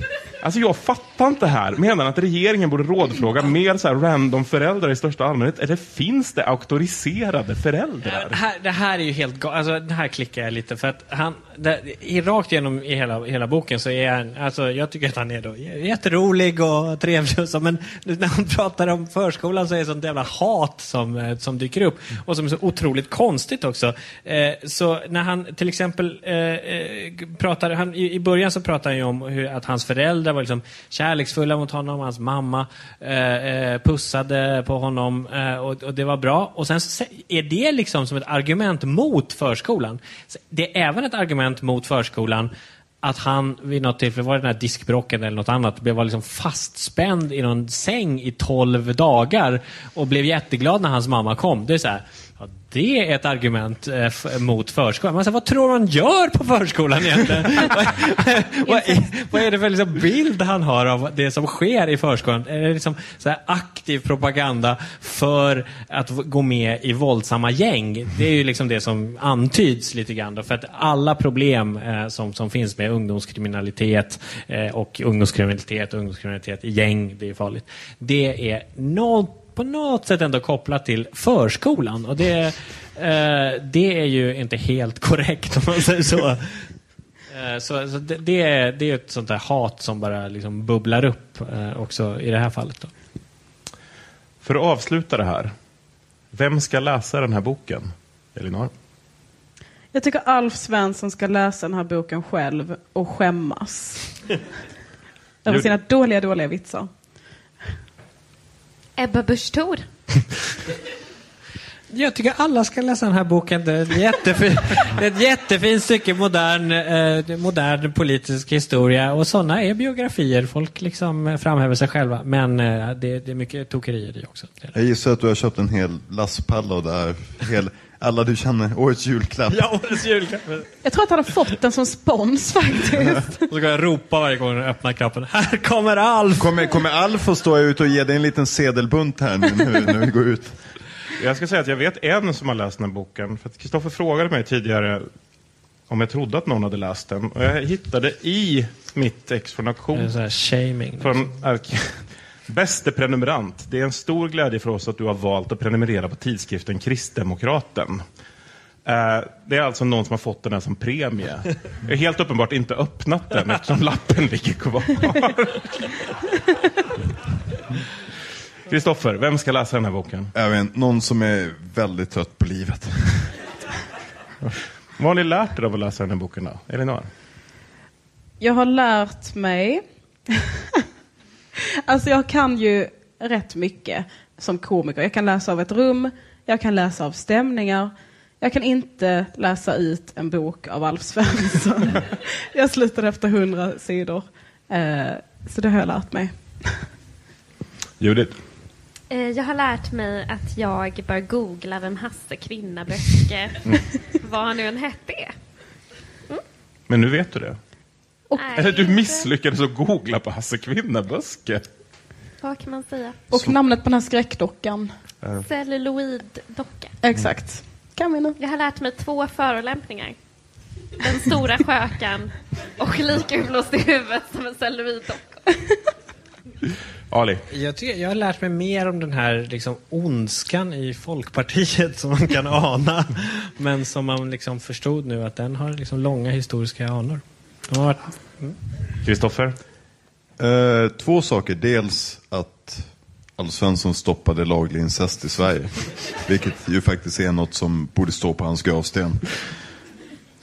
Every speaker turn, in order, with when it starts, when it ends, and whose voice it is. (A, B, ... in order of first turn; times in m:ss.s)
0:00.4-0:08.4 A
0:08.0-0:42.5 B
0:43.0-1:26.7 B
0:58.7-0:59.2 C
1:27.3-1:32.9 B
1:34.4-1:35.5 A
1:36.3-1:38.7 A
1:39.9-1:44.1 C
1:45.4-1:46.9 C
1:45.5-1:45.7 A
1:49.0-1:49.8 D
1:51.9-2:04.7 B
2:04.7-2:09.8 E
2:09.5-2:10.7 B
2:10.8-2:13.4 C
2:13.5-2:16.6 B
2:16.4-2:20.6 E
2:21.2-2:25.1 A
2:25.9-2:30.1 A
2:29.9-2:31.3 B
2:31.0-2:38.0 A
2:38.8-2:46.1 A
2:48.7-2:50.3 A
2:50.3-2:53.4 E
2:54.5-2:57.1 A
2:58.4-3:00.8 C
3:01.9-3:16.8 C
3:18.0-3:18.4 A
3:19.1-3:25.3 D
3:26.9-3:27.6 A
3:28.4-3:29.3 D
3:28.5-3:31.6 A
3:32.4-3:33.2 D
3:33.3-3:34.9 C
3:35.4-3:37.0 D
3:37.0-3:38.4 C
3:38.4-3:40.2 D
3:41.0-3:45.4 D
3:47.1-3:47.4 A
3:47.5-3:58.5 B
3:59.0-3:59.6 A
4:00.4-4:09.5 E